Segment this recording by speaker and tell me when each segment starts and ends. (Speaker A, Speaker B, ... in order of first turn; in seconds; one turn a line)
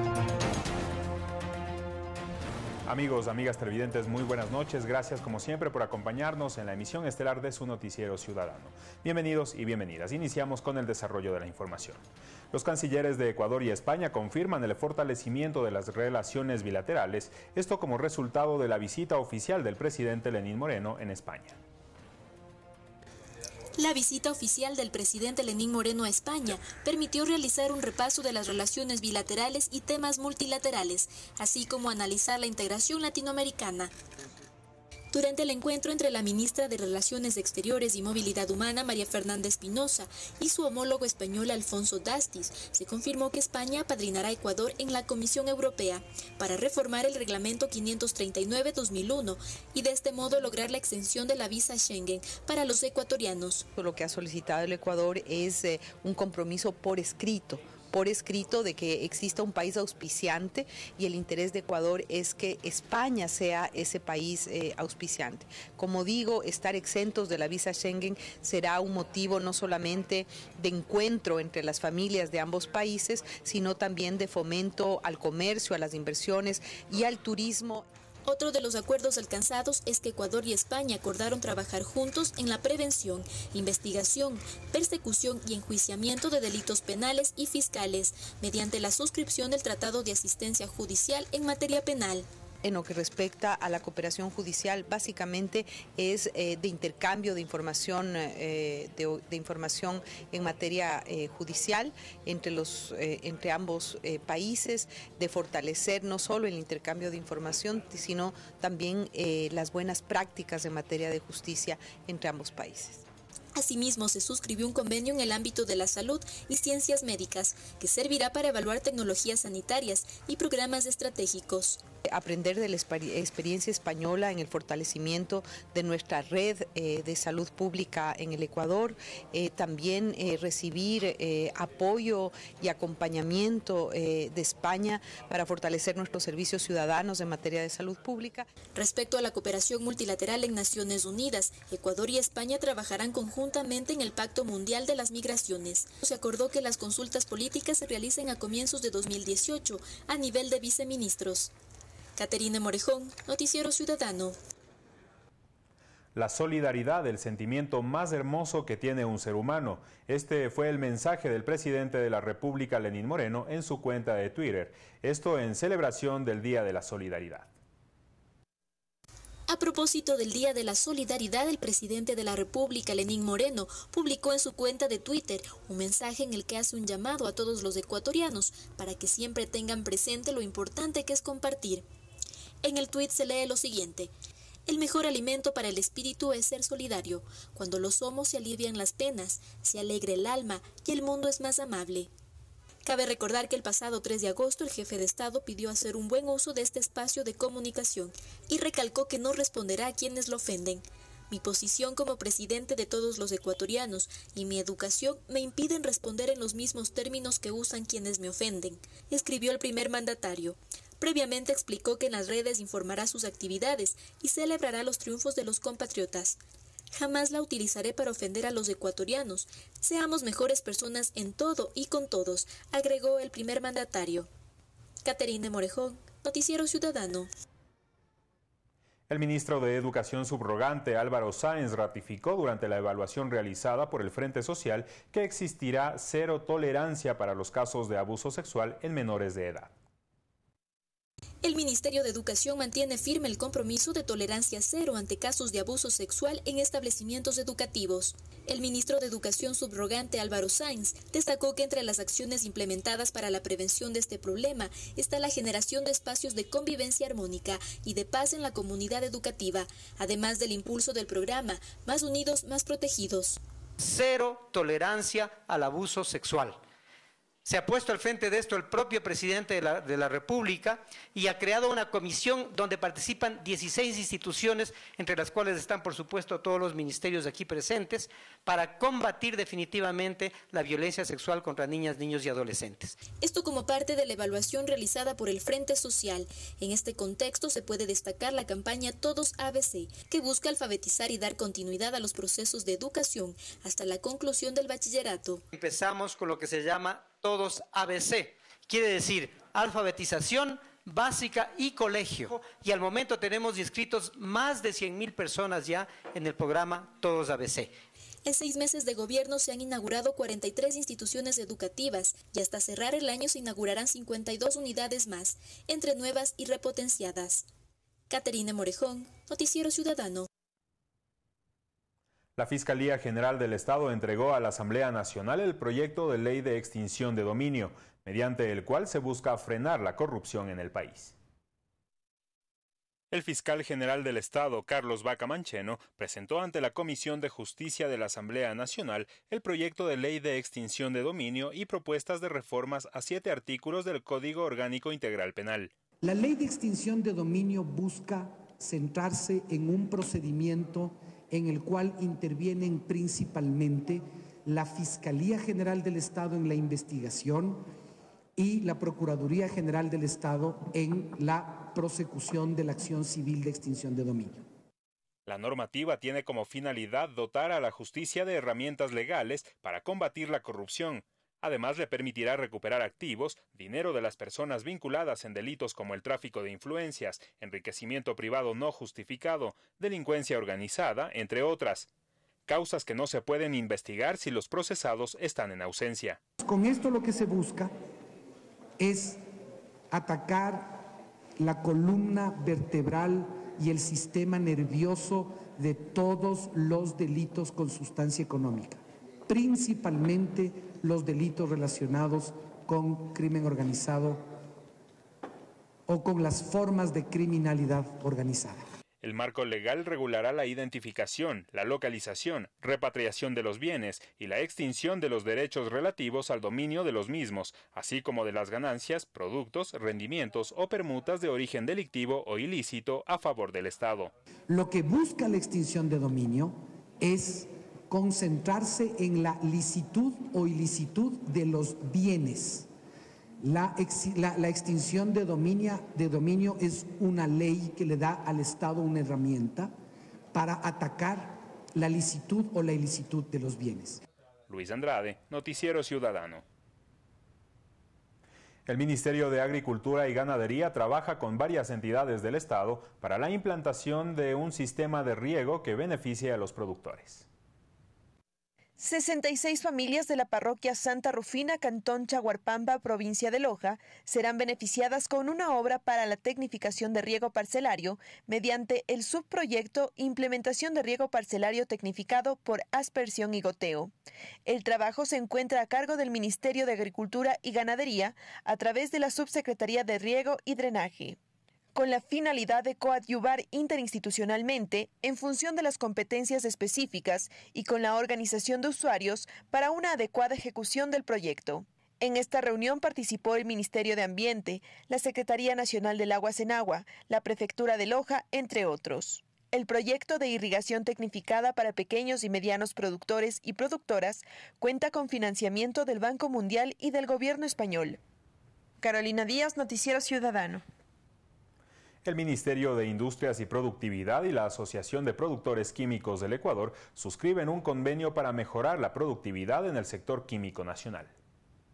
Speaker A: 2.9-21.6
Speaker B: 23.8-33.9
Speaker B: 35.1-53.6
Speaker C: 53.8-77.9
Speaker B: 78.2-92.3
Speaker C: 92.6-113.0
Speaker B: 113.5-121.8
Speaker C: 122.0-138.5
Speaker B: 138.7-151.5
Speaker B: 152.2-154.4
Speaker A: 156.1-167.5
Speaker B: 169.5-181.8
Speaker B: 182.6-184.1
Speaker B: 184.7-192.1
Speaker B: 192.8-216.4
Speaker B: 216.9-224.3
Speaker B: 225.0-227.3
Speaker A: 229.1-239.7
Speaker B: 241.4-263.4
Speaker D: 263.8-266.6
Speaker D: 267.4-283.0
Speaker B: 283.2-295.4
Speaker D: 295.5-307.7
Speaker B: 308.2-317.5
Speaker B: 318.1-320.3
Speaker A: 322.4-331.1
Speaker A: 333.1-345.7
Speaker E: 346.0-357.6
Speaker E: 358.4-364.4
Speaker A: 365.3-381.9
Speaker A: 382.5-386.2
Speaker E: 386.4-387.7
Speaker E: 388.8-389.2
Speaker E: 389.9-390.9
Speaker E: 391.4-404.3
Speaker E: 405.9-408.6
Speaker A: 409.0-424.1
Speaker E: 424.5-432.7
Speaker E: 433.4-439.7
Speaker E: 440.3-444.0
Speaker A: 444.5-446.4
Speaker A: 448.6-457.2
Speaker F: 458.8-473.9
Speaker F: 474.4-481.2
Speaker F: 481.7-508.0
Speaker F: 508.8-510.6
Speaker A: 512.0-521.1